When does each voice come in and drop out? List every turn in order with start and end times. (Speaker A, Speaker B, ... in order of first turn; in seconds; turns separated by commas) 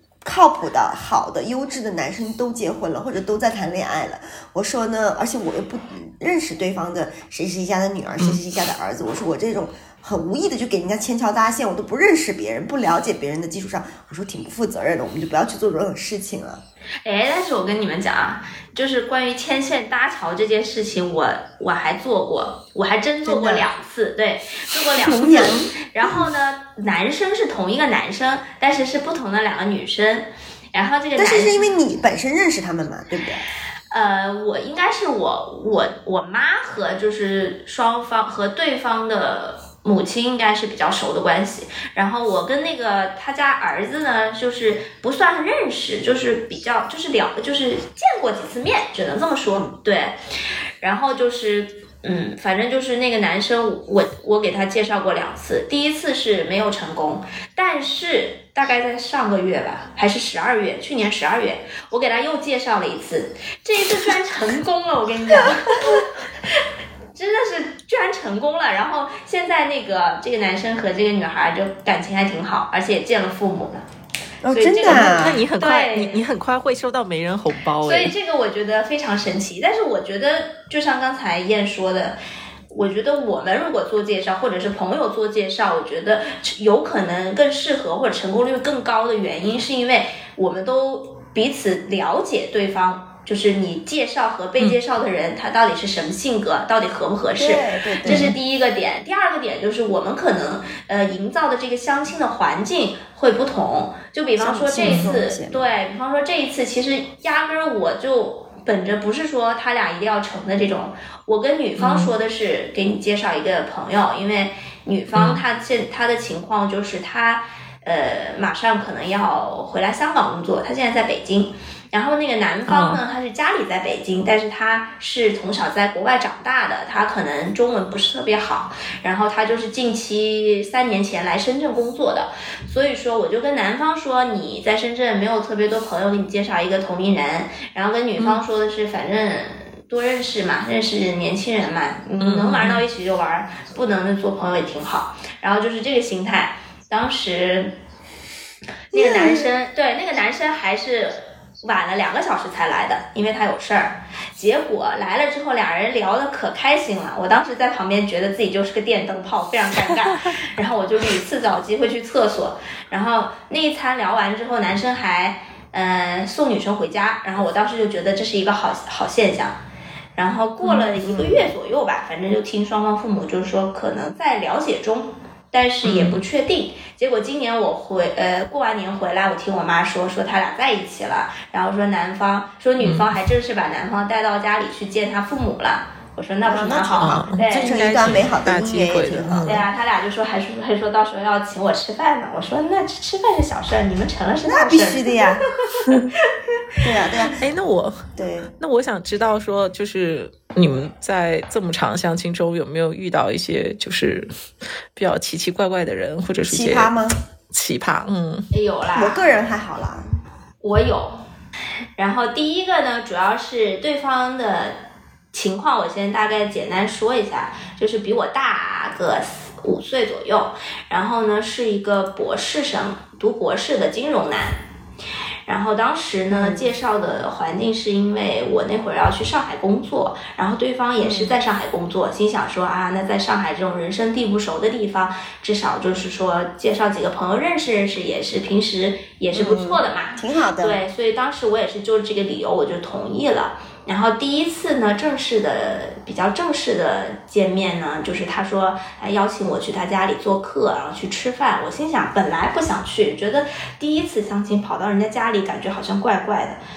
Speaker A: 0.2-16.6, Speaker B: 17.0-31.6, Speaker A: 23.2-23.6, Speaker A: 25.0-26.3, Speaker A: 31.2-33.4, Speaker B: 33.9-50.1, Speaker A: 49.5-49.7, Speaker B: 50.8-66.1, Speaker B: 67.1-73.8, Speaker A: 74.4-75.4, Speaker B: 74.5-76.2, Speaker C: 74.8-78.1, Speaker B: 77.8-82.2, Speaker B: 82.7-147.8, Speaker A: 97.4-98.3, Speaker C: 98.0-98.3, Speaker A: 104.4-105.6, Speaker C: 104.8-105.1, Speaker C: 111.8-112.1, Speaker C: 115.1-115.4, Speaker C: 122.7-123.0, Speaker C: 142.2-142.8, Speaker B: 148.9-169.6, Speaker A: 148.9-149.5, Speaker B: 170.2-187.8, Speaker A: 170.7-171.5, Speaker C: 175.8-176.2, Speaker C: 182.8-183.1, Speaker A: 186.4-189.6, Speaker C: 187.0-189.6, Speaker B: 189.4-196.3, Speaker A: 194.4-195.4, Speaker A: 196.8-197.4, Speaker C: 197.4-204.3, Speaker A: 198.2-198.5, Speaker C: 204.9-206.9, Speaker A: 206.5-207.2, Speaker C: 207.5-208.5, Speaker B: 208.5-209.2, Speaker A: 208.9-210.2, Speaker B: 210.6-211.2, Speaker B: 212.0-214.8, Speaker B: 215.3-224.6, Speaker B: 225.4-256.6, Speaker A: 226.3-226.6, Speaker A: 231.0-231.4, Speaker A: 239.3-240.8